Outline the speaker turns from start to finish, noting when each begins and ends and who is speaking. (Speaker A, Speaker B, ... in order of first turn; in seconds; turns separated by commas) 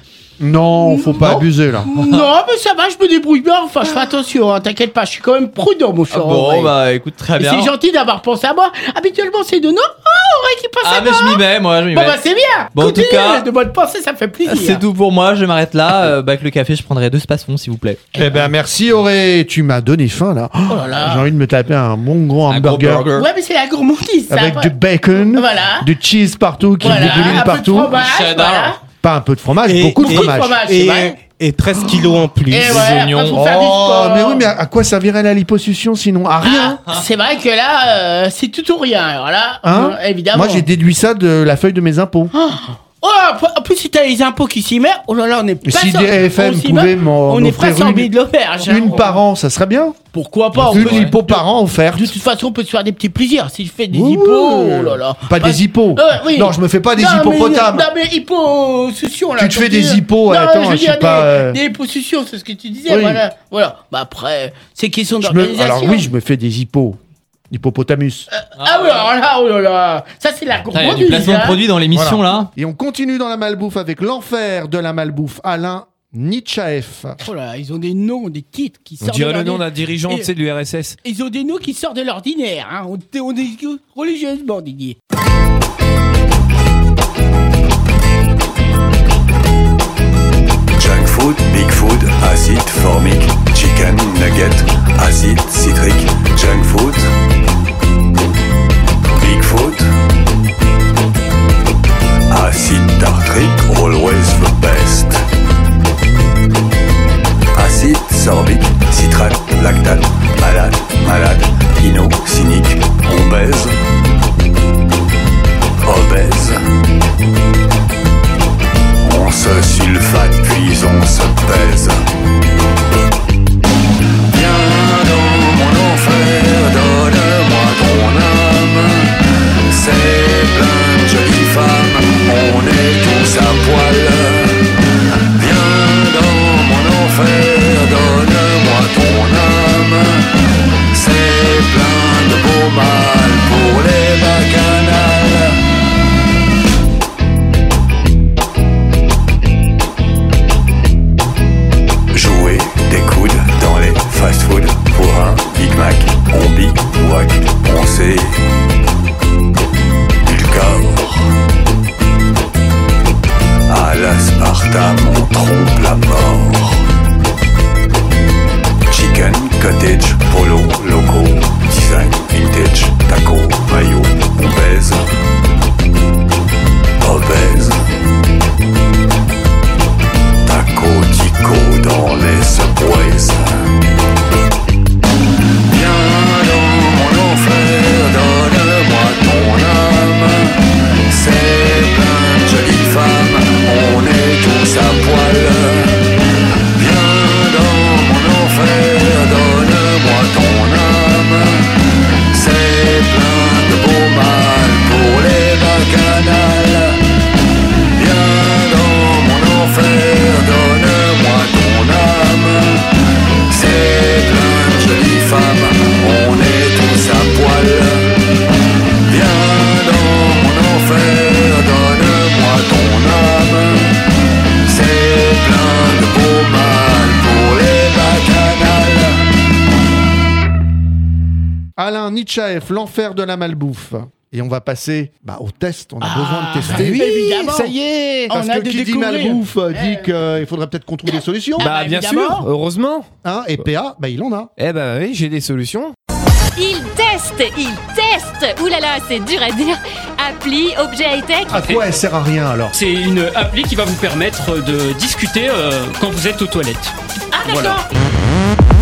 Speaker A: 0.4-1.9, Speaker B: 0.8-6.7, Speaker C: 6.1-7.7, Speaker B: 7.4-14.8, Speaker C: 10.8-12.2, Speaker C: 12.7-13.5, Speaker C: 14.5-18.1, Speaker B: 18.2-18.5, Speaker A: 18.2-23.1, Speaker B: 20.7-21.3, Speaker C: 22.5-23.3, Speaker B: 23.1-25.9, Speaker A: 24.3-28.0, Speaker B: 26.8-28.8, Speaker C: 26.8-28.8, Speaker A: 29.0-30.6, Speaker C: 29.8-30.3, Speaker B: 30.0-31.2, Speaker C: 32.4-33.3, Speaker B: 32.5-34.5, Speaker A: 33.3-36.8, Speaker B: 36.4-40.7, Speaker A: 39.6-42.3, Speaker B: 42.3-49.2, Speaker A: 45.6-48.1, Speaker A: 48.6-50.0, Speaker B: 50.1-66.1, Speaker A: 50.6-52.1, Speaker A: 53.9-57.9, Speaker A: 59.4-61.6, Speaker A: 62.9-63.2, Speaker A: 65.2-67.0, Speaker A: 67.5-68.3, Speaker B: 68.3-71.6, Speaker C: 68.6-69.1, Speaker C: 70.7-72.5, Speaker A: 71.9-77.2, Speaker B: 77.2-80.3, Speaker D: 79.0-81.0, Speaker B: 81.0-85.0, Speaker E: 90.8-97.1, Speaker E: 99.1-99.8, Speaker E: 102.3-105.2, Speaker E: 107.5-113.8, Speaker E: 115.8-116.6, Speaker E: 119.0-122.0, Speaker E: 124.3-129.2, Speaker E: 129.7-134.6, Speaker E: 135.3-140.3, Speaker E: 140.9-145.6, Speaker E: 152.1-158.4, Speaker E: 160.2-161.2, Speaker E: 163.7-166.8, Speaker E: 168.9-175.1, Speaker E: 177.0-177.8, Speaker E: 180.5-183.6, Speaker E: 185.7-195.9, Speaker E: 196.8-201.8, Speaker E: 202.3-207.0, Speaker E: 207.9-212.8, Speaker E: 213.5-218.1, Speaker E: 219.1-223.9, Speaker E: 224.7-229.2, Speaker A: 231.8-237.7, Speaker B: 236.0-237.8, Speaker D: 237.5-238.2, Speaker B: 238.3-240.1, Speaker A: 238.3-241.7, Speaker B: 241.6-242.5, Speaker D: 241.6-243.1, Speaker A: 243.2-244.5, Speaker D: 244.6-245.9, Speaker F: 246.6-251.5, Speaker A: 251.5-252.8, Speaker G: 251.5-251.8, Speaker G: 252.7-256.9, Speaker B: 257.3-257.9, Speaker G: 257.4-257.8